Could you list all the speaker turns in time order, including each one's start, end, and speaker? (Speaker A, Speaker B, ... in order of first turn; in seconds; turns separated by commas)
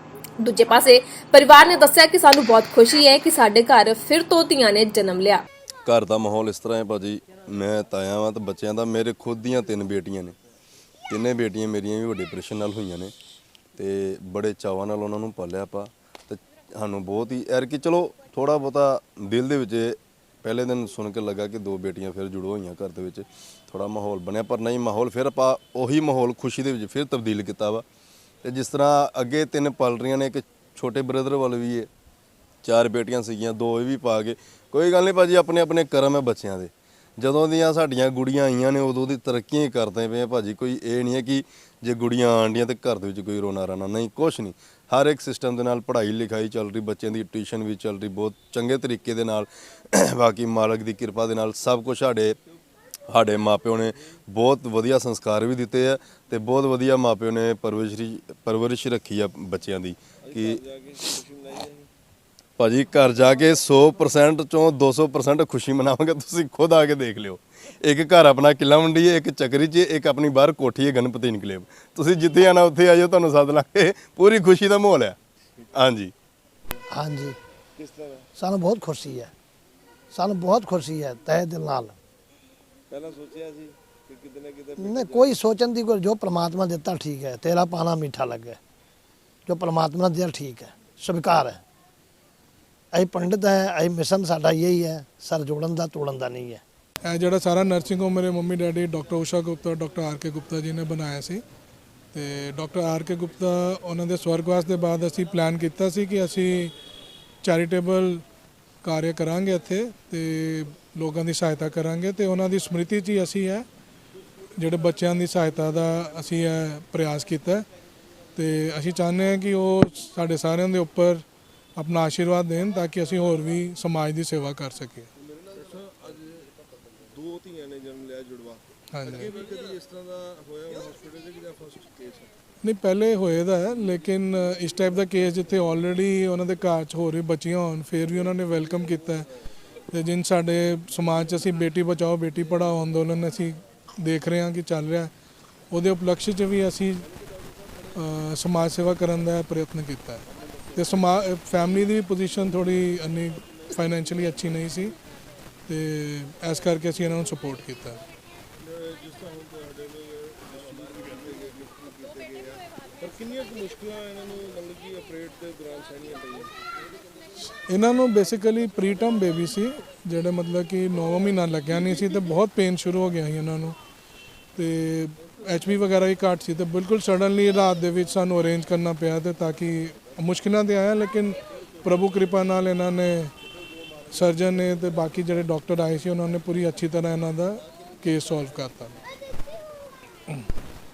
Speaker A: 0.4-5.4, Speaker B: 5.9-10.3, Speaker B: 11.1-13.1, Speaker B: 13.8-27.9, Speaker B: 28.4-31.9, Speaker B: 32.6-52.4, Speaker B: 53.1-60.6, Speaker C: 60.2-61.9, Speaker B: 62.6-75.2, Speaker B: 75.7-76.1, Speaker D: 76.9-77.4, Speaker C: 77.8-78.3, Speaker D: 78.4-79.3, Speaker D: 80.1-82.0, Speaker C: 82.9-85.3, Speaker D: 84.8-88.6, Speaker D: 89.5-91.6, Speaker D: 92.9-96.6, Speaker E: 97.0-101.4, Speaker E: 102.1-106.7, Speaker E: 107.4-108.2, Speaker E: 108.8-113.7, Speaker E: 114.6-117.7, Speaker E: 118.4-121.2, Speaker E: 121.8-125.1, Speaker C: 125.5-132.3, Speaker E: 128.9-129.3, Speaker E: 132.6-139.3, Speaker E: 139.9-145.1, Speaker E: 145.7-147.1, Speaker E: 147.9-154.9, Speaker E: 155.7-158.0, Speaker C: 158.6-166.5, Speaker E: 167.7-173.8, Speaker E: 174.6-183.3, Speaker E: 184.1-189.0